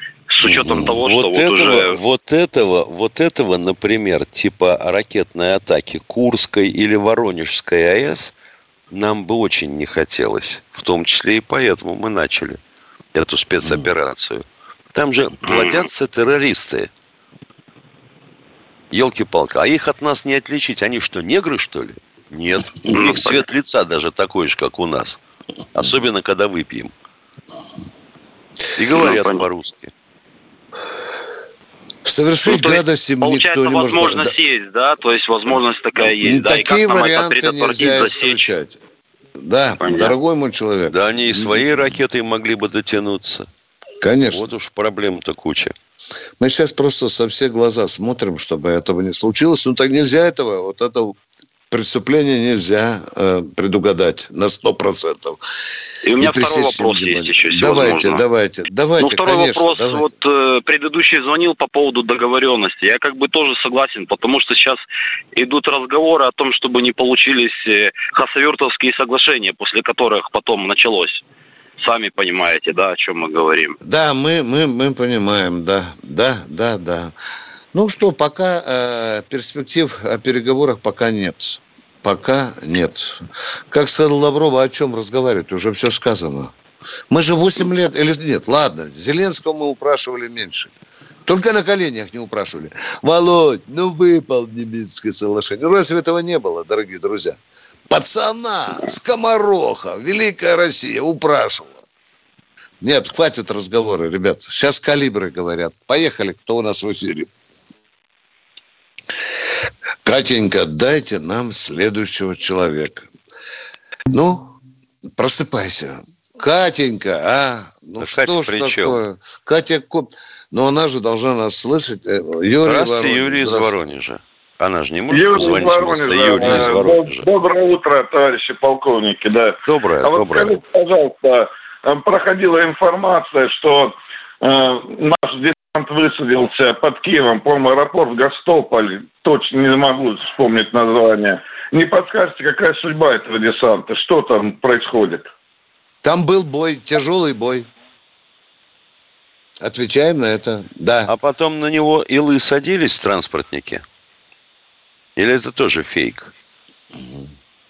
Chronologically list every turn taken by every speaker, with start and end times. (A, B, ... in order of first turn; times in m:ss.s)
0:00.3-0:02.0 A
0:00.4-0:00.9 B
0:01.0-0:08.3 C
0:08.9-0:12.6 C
0:13.1-0:16.9 C
0:13.6-0:13.9 B
0:18.9-0:25.2 C
0:22.9-0:23.2 A
0:25.7-0:26.9 C
0:28.8-0:29.9 C
0:28.9-0:29.4 A
0:32.0-0:34.3 B
0:32.4-0:38.5 A
0:36.0-0:38.8 B
0:39.4-0:41.6 B
0:39.8-0:40.1 A
0:40.9-0:43.5 C
0:44.0-0:44.5 B
0:44.3-0:45.7 C
0:46.4-0:51.2 B
0:51.7-0:55.4 B
0:56.0-0:58.2 A
0:56.2-1:00.1 B
0:59.0-1:04.8 A
1:05.3-1:11.2 A
1:11.8-1:13.8 A
1:13.8-1:17.1 B
1:17.7-1:26.5 B
1:27.1-1:30.7 B
1:31.2-1:37.4 B
1:37.9-1:41.8 B
1:42.8-1:47.3 B
1:50.0-1:53.1 B
1:54.1-1:54.6 B
1:55.2-2:03.7 B
1:58.0-1:59.0 C
2:02.6-2:07.3 C
2:05.1-2:25.3 D
2:05.4-2:05.6 B
2:06.4-2:06.8 B
2:09.6-2:10.6 C
2:26.0-2:27.7 B
2:29.6-2:31.1 B
2:31.1-2:33.8 C
2:35.2-2:36.3 C
2:37.0-2:37.3 B